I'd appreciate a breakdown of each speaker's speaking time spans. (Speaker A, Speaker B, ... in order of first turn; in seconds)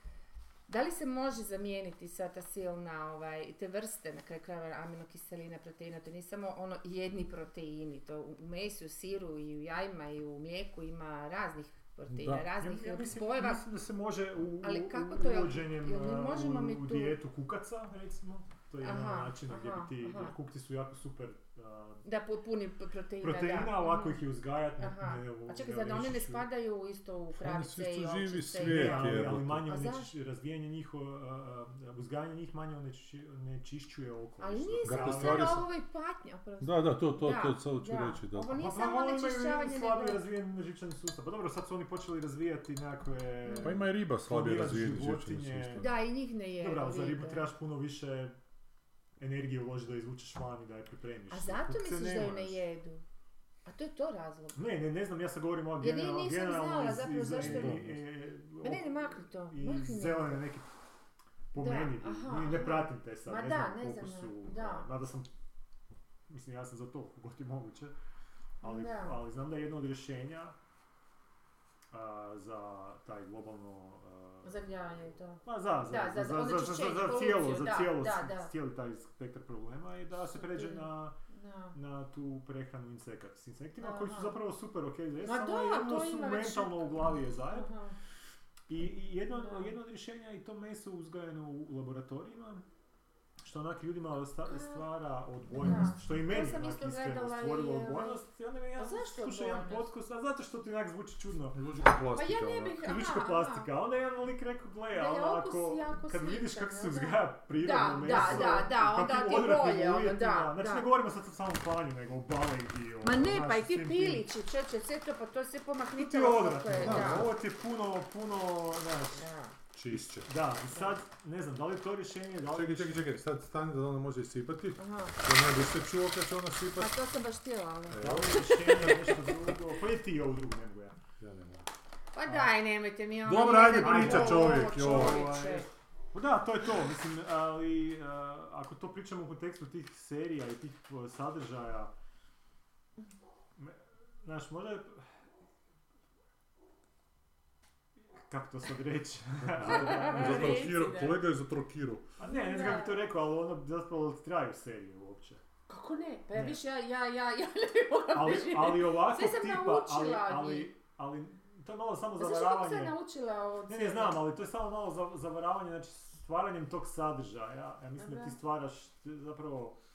Speaker A: 0.7-13.6, 14.6-17.2, 18.8-20.3, 22.0-24.3, 24.8-30.1, 34.4-40.2, 43.4-43.8, 45.8-47.5, 51.3-53.0, 53.6-54.6, 55.8-57.9, 58.6-60.4, 61.5-64.9, 68.6-69.2, 74.4-78.5, 80.3-81.8, 83.8-84.4, 85.2-88.0, 89.3-89.7, 94.5-94.8, 95.6-98.2, 98.8-99.9, 102.1-103.7, 104.9-110.9, 113.0-117.3, 119.1-119.6, 124.8-125.2, 126.8-129.2, 132.1-135.7, 149.6-151.2, 152.2-153.0, 155.7-160.7, 162.2-164.3, 168.0-168.3
Speaker B: 12.1-12.4, 27.4-29.6, 34.8-35.7, 36.6-38.6, 43.6-45.9, 57.4-57.9, 101.5-102.8, 116.8-117.3, 119.7-120.3, 122.5-126.9, 127.9-128.7, 131.2-131.7, 133.2-135.3, 149.6-152.1
Speaker C: 12.5-22.0, 23.2-26.4, 28.6-35.6, 38.5-45.9, 46.6-48.4, 49.2-52.6, 54.5-60.7, 61.5-65.3, 66.3-67.9, 68.6-70.5, 71.9-74.6, 75.4-81.2, 81.7-87.7, 88.7-92.6, 93.4-101.6, 102.8-114.2, 116.0-119.3, 119.9-123.1, 127.9-130.9, 132.2-132.5, 133.7-141.9, 143.6-145.1, 148.3-150.7, 152.2-155.4, 156.3-156.6, 158.1-162.9, 163.7-169.8